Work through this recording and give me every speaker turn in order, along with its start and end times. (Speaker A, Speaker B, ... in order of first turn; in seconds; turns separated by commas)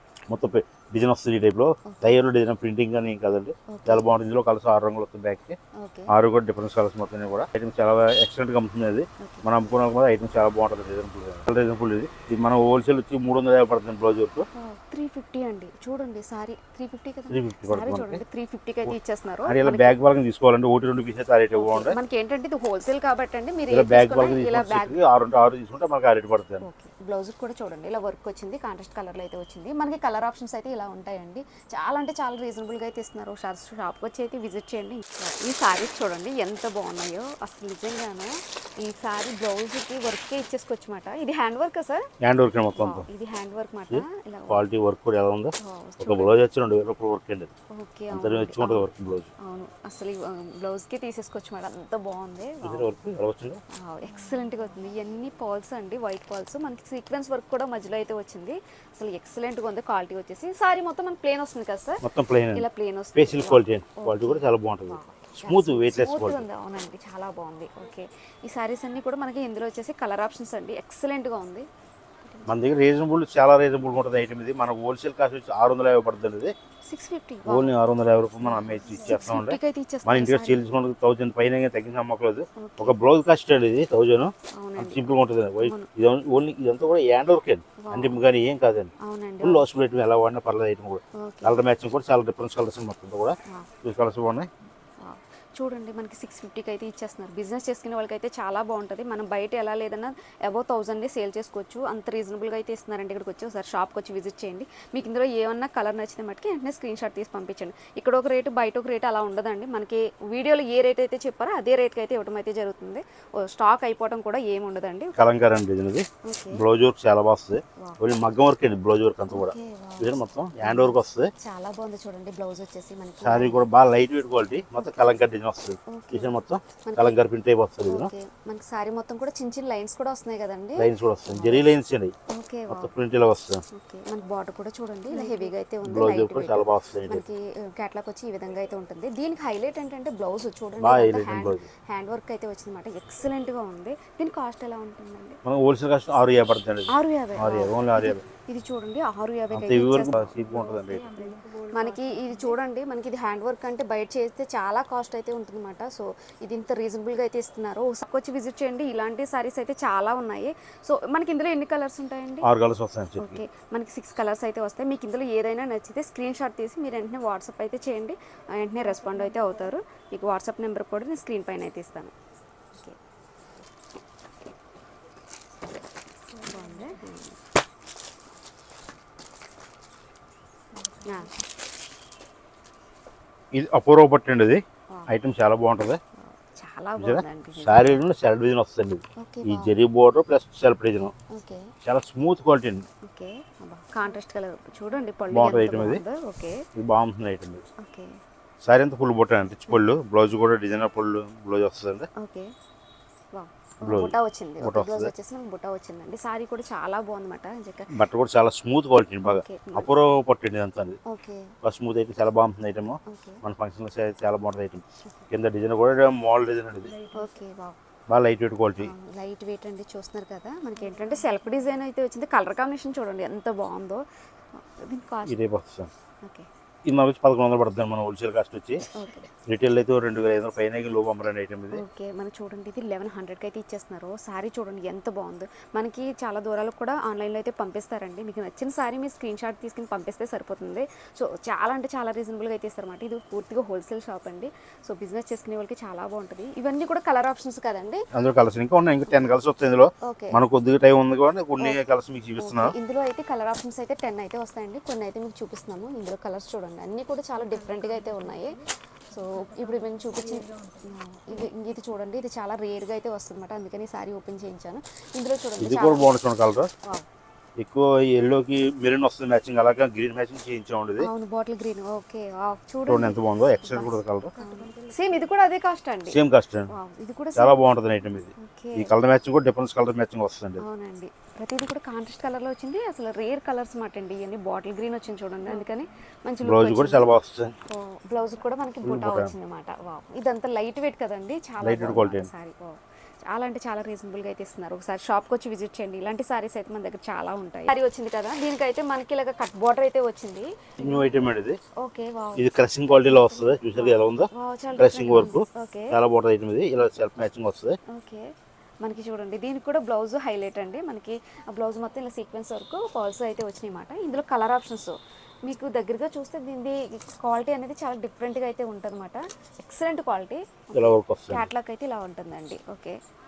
Speaker A: 0.3-5.6, Speaker B: 3.7-4.1, Speaker B: 5.8-6.1, Speaker A: 6.1-14.5, Speaker B: 9.2-9.4, Speaker B: 14.6-19.9, Speaker A: 17.3-18.2, Speaker A: 18.9-22.0, Speaker B: 21.5-25.0, Speaker A: 23.7-26.6, Speaker B: 26.6-42.1, Speaker A: 42.2-43.1, Speaker B: 42.7-44.6, Speaker A: 43.9-47.5, Speaker B: 45.6-46.4, Speaker B: 47.7-48.9, Speaker A: 48.1-49.3, Speaker B: 49.4-52.9, Speaker A: 52.6-53.6, Speaker B: 53.7-71.7, Speaker A: 62.0-66.5, Speaker A: 72.5-76.5, Speaker B: 76.8-77.7, Speaker A: 77.5-94.5, Speaker B: 78.4-80.6, Speaker B: 82.6-83.0, Speaker B: 84.5-85.9, Speaker B: 87.8-88.2, Speaker B: 89.0-89.7, Speaker B: 91.2-91.6, Speaker B: 95.0-115.2, Speaker A: 115.2-121.3, Speaker B: 116.2-116.6, Speaker B: 119.3-123.7, Speaker A: 123.2-128.1, Speaker B: 125.9-126.3, Speaker B: 126.8-127.2, Speaker B: 127.8-131.7, Speaker A: 130.8-132.1, Speaker B: 132.3-132.9, Speaker A: 132.7-133.6, Speaker B: 133.7-145.4, Speaker A: 135.8-137.2, Speaker A: 140.8-141.7, Speaker A: 145.4-148.2, Speaker B: 146.9-150.4, Speaker A: 149.5-151.2, Speaker B: 151.2-162.5, Speaker A: 162.4-163.4, Speaker B: 163.2-172.1, Speaker B: 176.3-177.3, Speaker B: 181.0-181.3, Speaker A: 183.5-186.0, Speaker B: 186.2-188.0, Speaker A: 187.0-191.1, Speaker B: 189.2-189.7, Speaker B: 191.3-191.7, Speaker A: 191.8-192.8, Speaker B: 193.0-196.6, Speaker A: 195.3-196.0, Speaker A: 196.7-197.6, Speaker B: 197.8-198.2, Speaker A: 198.6-202.1, Speaker B: 202.1-202.5, Speaker B: 203.3-207.9, Speaker A: 203.8-205.1, Speaker A: 207.9-211.0, Speaker B: 209.2-209.9, Speaker B: 211.1-211.6, Speaker A: 211.6-216.9, Speaker B: 213.1-213.4, Speaker B: 217.1-217.8, Speaker A: 218.1-218.9, Speaker B: 218.8-224.0, Speaker B: 224.6-225.4, Speaker A: 225.2-225.9, Speaker A: 226.8-228.9, Speaker B: 228.9-229.3, Speaker A: 229.4-231.8, Speaker B: 231.7-248.0, Speaker A: 248.1-252.7, Speaker B: 250.0-250.4, Speaker B: 252.4-266.2, Speaker A: 265.6-266.7, Speaker A: 267.6-271.1, Speaker B: 271.0-277.6, Speaker A: 272.9-274.4, Speaker A: 276.1-276.7, Speaker A: 277.4-280.6, Speaker B: 278.4-278.9, Speaker B: 280.6-287.1, Speaker A: 286.4-287.5, Speaker B: 287.7-300.8, Speaker A: 288.8-289.3, Speaker A: 291.6-292.3, Speaker A: 300.8-301.6, Speaker B: 301.8-306.0, Speaker A: 302.4-307.8, Speaker B: 307.9-308.3, Speaker B: 308.8-323.0, Speaker A: 320.7-321.5